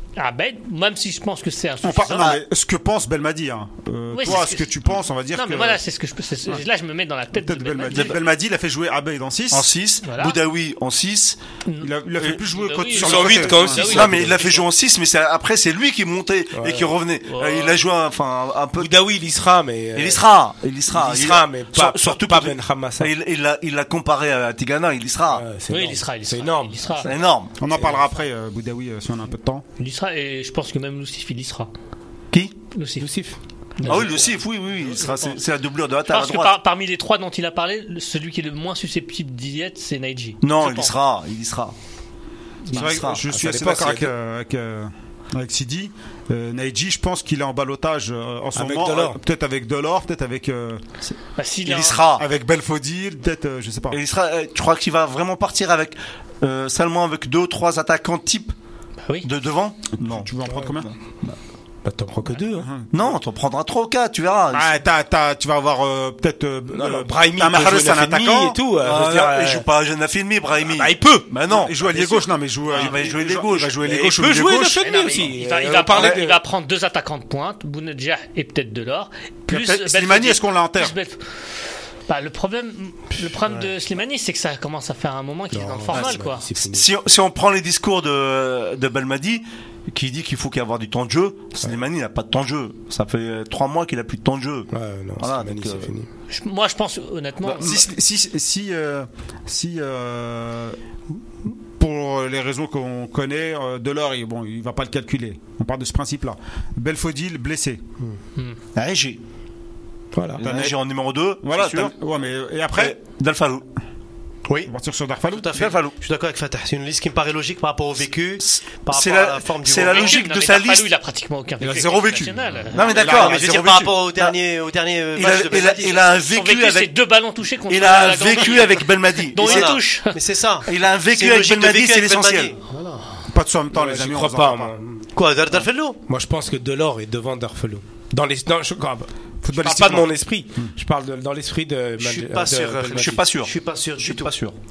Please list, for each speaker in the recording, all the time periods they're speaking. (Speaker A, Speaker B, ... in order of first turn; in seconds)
Speaker A: 0.2-2.4, 4.1-4.7, 5.3-8.3, 10.0-10.4, 11.7-14.7, 17.3-17.8, 25.7-27.1, 29.8-31.7, 32.7-33.1, 33.8-35.4, 36.1-41.0, 51.4-52.1, 74.8-81.5, 82.1-86.5, 96.3-97.9, 119.8-123.1, 125.9-130.2
Speaker B: 1.8-5.8, 7.4-9.7, 11.8-14.3, 27.6-29.6, 42.7-50.8, 52.2-54.0, 60.0-60.9, 62.6-62.9, 64.5-68.6, 71.5-74.8, 79.5-81.0, 97.5-100.8, 101.8-107.8, 110.4-110.8, 111.4-113.0, 114.7-115.6, 121.6-123.9, 133.3-134.7, 139.4-140.7
Speaker C: 7.9-8.2, 9.5-11.4, 13.0-18.9, 19.9-25.5, 27.0-27.6, 33.9-36.6, 40.4-41.7, 42.7-43.2, 51.1-52.2, 53.9-58.5, 59.2-61.0, 62.9-64.8, 68.8-73.8, 85.9-95.9, 108.8-109.2, 110.4-111.9, 112.8-113.7, 115.5-116.0, 118.4-120.9, 122.7-124.3, 125.2-126.9, 127.7-129.8, 130.7-132.5, 142.9-144.6
Speaker D: 12.9-14.4, 16.6-16.9, 18.8-20.2, 20.9-23.1, 25.3-26.9, 33.0-34.1, 42.8-44.1, 48.5-49.2, 61.9-62.7, 66.7-69.7, 70.7-71.3, 73.8-76.4, 85.5-86.9, 94.7-96.1, 110.1-110.5, 133.7-135.1, 135.6-143.2
Speaker E: 115.3-120.2, 122.8-126.0, 129.4-133.1, 135.1-136.0, 142.0-144.3